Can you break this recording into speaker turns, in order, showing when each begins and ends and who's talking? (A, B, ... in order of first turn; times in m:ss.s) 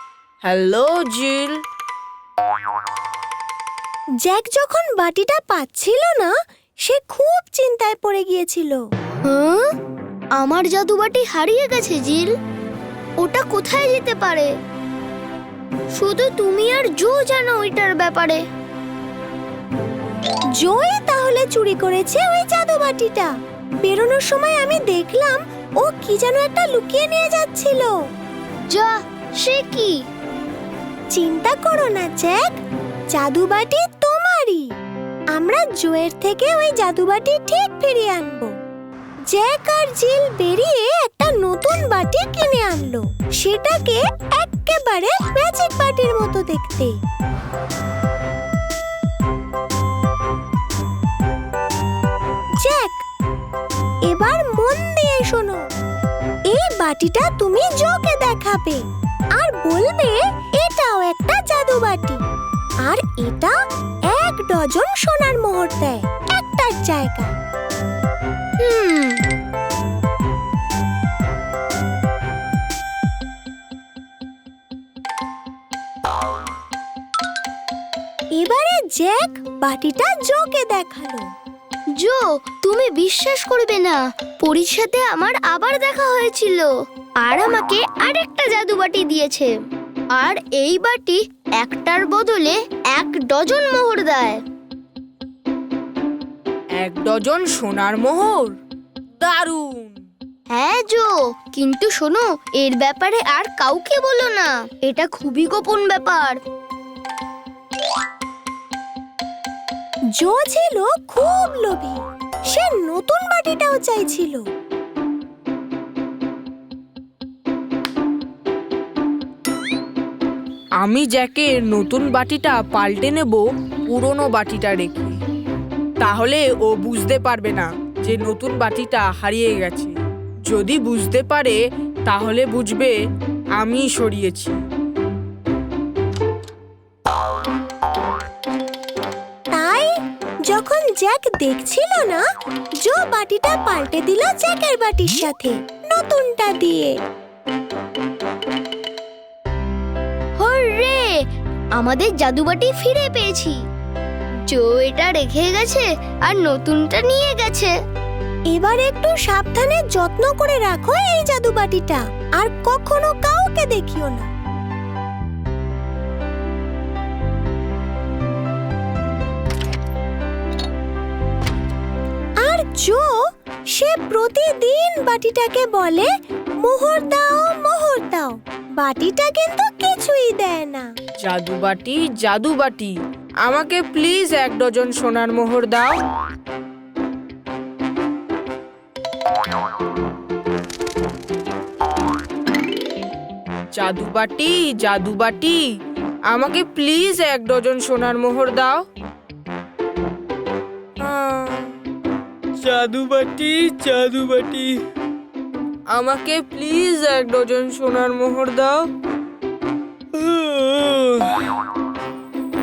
0:00.4-0:01.6 A
0:04.2-0:06.3 B
0:06.8-0:08.8 B
0:09.2-0:09.6 C
0:10.4-0:12.3 C
0:13.2-0:14.5 C
0:16.0-0:18.4 C
0:20.6-0:23.3 B
0:23.8-0:27.9 B
0:28.7-0:29.9 C
0:31.1-0:32.5 B
0:33.1-0:34.7 B
0:35.4-0:38.5 B
0:39.3-0:46.9 B
0:52.6-0:53.0 B
0:54.1-0:55.6 B
0:56.5-0:58.8 B
0:59.4-1:02.2 B
1:02.8-1:03.5 B
1:04.1-1:07.3 B
1:08.6-1:09.2 C
1:18.4-1:21.2 B
1:22.0-1:26.7 C
1:27.2-1:29.5 C
1:30.2-1:34.4 C
1:36.8-1:38.6 A
1:39.2-1:40.0 A
1:40.5-1:46.4 C
1:50.2-1:54.4 B
2:00.8-2:05.2 A
2:06.0-2:09.9 A
2:10.5-2:12.9 A
2:13.6-2:14.6 A
2:19.5-2:19.9 B
2:20.5-2:22.2 B
2:22.8-2:26.9 B
2:30.4-2:31.0 C
2:31.8-2:33.6 C
2:34.5-2:37.7 C
2:38.5-2:44.3 B
2:52.4-2:53.1 B
2:53.7-2:56.1 B
2:56.6-3:00.9 B
3:01.2-3:05.9 A
3:13.7-3:15.7 A
3:16.3-3:18.8 A
3:21.0-3:21.7 A
3:22.6-3:24.7 A
3:25.9-3:28.9 A
3:30.5-3:31.2 A